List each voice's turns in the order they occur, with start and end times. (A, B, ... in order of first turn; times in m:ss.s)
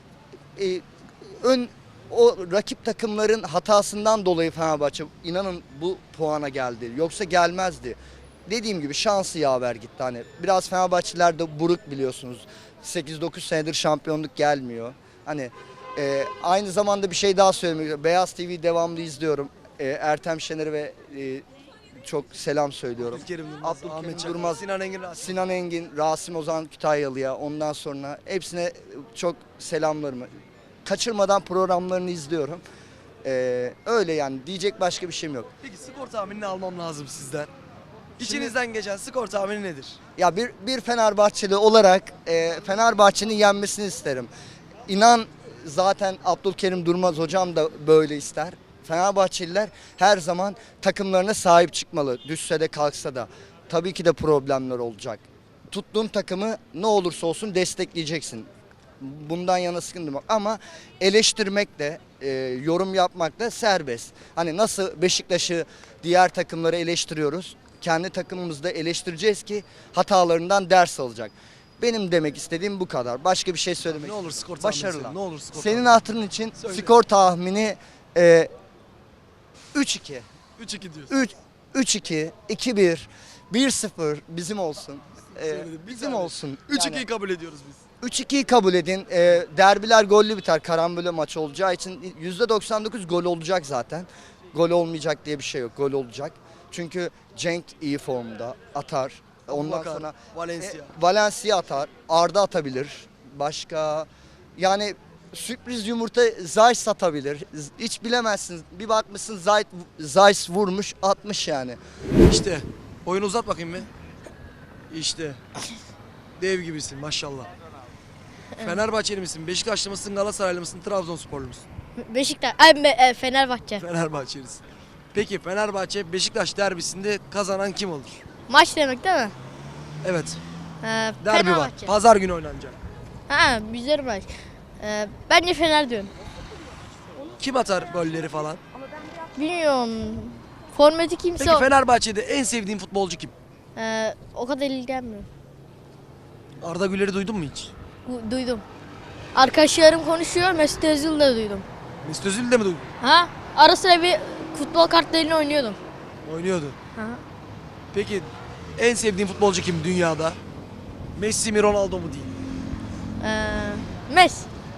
0:00.6-0:21.4 A
0:22.0-0:24.6 A
0:23.0-0:25.4 B
0:25.2-0:30.3 A
0:30.8-0:32.6 A
0:33.2-0:35.5 A
0:35.6-0:37.5 B
0:38.2-0:38.6 A
0:38.2-0:40.0 B
0:40.2-0:44.3 A
0:44.9-0:58.5 A
0:59.0-1:18.5 A
1:13.9-1:15.9 B
1:16.6-1:16.9 B
1:19.7-1:20.2 A
1:20.6-1:21.2 B
1:21.1-1:27.0 A
1:25.4-1:27.8 B
1:28.0-1:51.8 A
1:39.5-1:40.9 B
1:52.3-1:53.9 B
1:54.9-1:55.4 B
1:56.4-1:57.5 B
1:58.6-2:01.6 B
2:02.0-2:03.8 C
2:03.8-2:08.2 B
2:08.5-2:09.3 C
2:10.0-2:10.4 B
2:10.8-2:11.9 C
2:11.2-2:12.8 B
2:13.3-2:16.1 C
2:17.4-2:18.6 B
2:19.4-2:21.7 C
2:21.4-2:23.3 B
2:23.8-2:25.3 C
2:26.6-2:27.7 B
2:28.1-2:28.6 C
2:29.4-2:31.6 C
2:32.0-2:32.9 B
2:33.0-2:35.8 C
2:36.2-2:36.8 B
2:37.0-2:37.2 C
2:37.9-2:40.4 B
2:41.2-2:42.4 B
2:43.2-2:44.5 C